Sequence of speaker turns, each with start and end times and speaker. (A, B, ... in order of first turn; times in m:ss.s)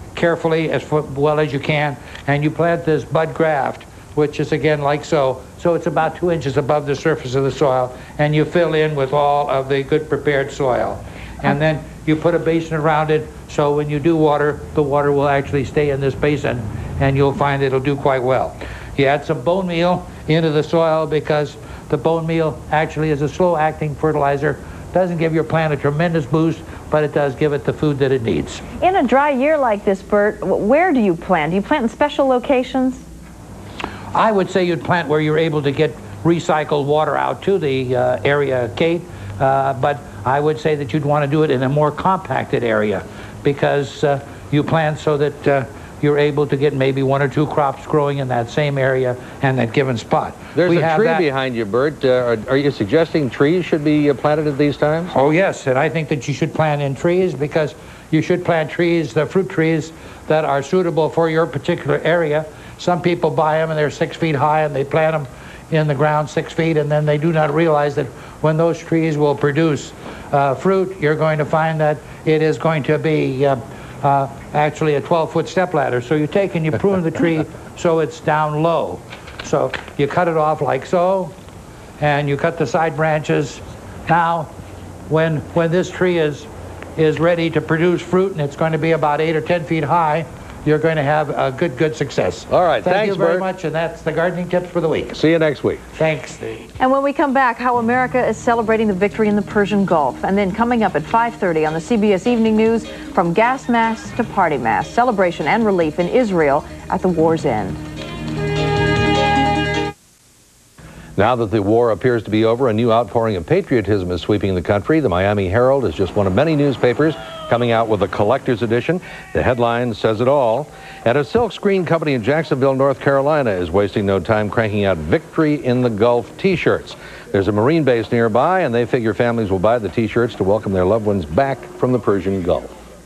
0:00.2-0:28.6 A
0:28.8-0:33.0 B
0:34.1-0:51.2 A
0:50.6-0:55.1 C
0:55.1-1:21.3 A
1:22.0-1:24.5 A
1:25.1-1:35.2 A
1:32.5-1:33.5 C
1:35.1-1:35.8 C
1:36.0-1:36.6 A
1:36.8-1:47.8 B
1:51.2-2:12.7 C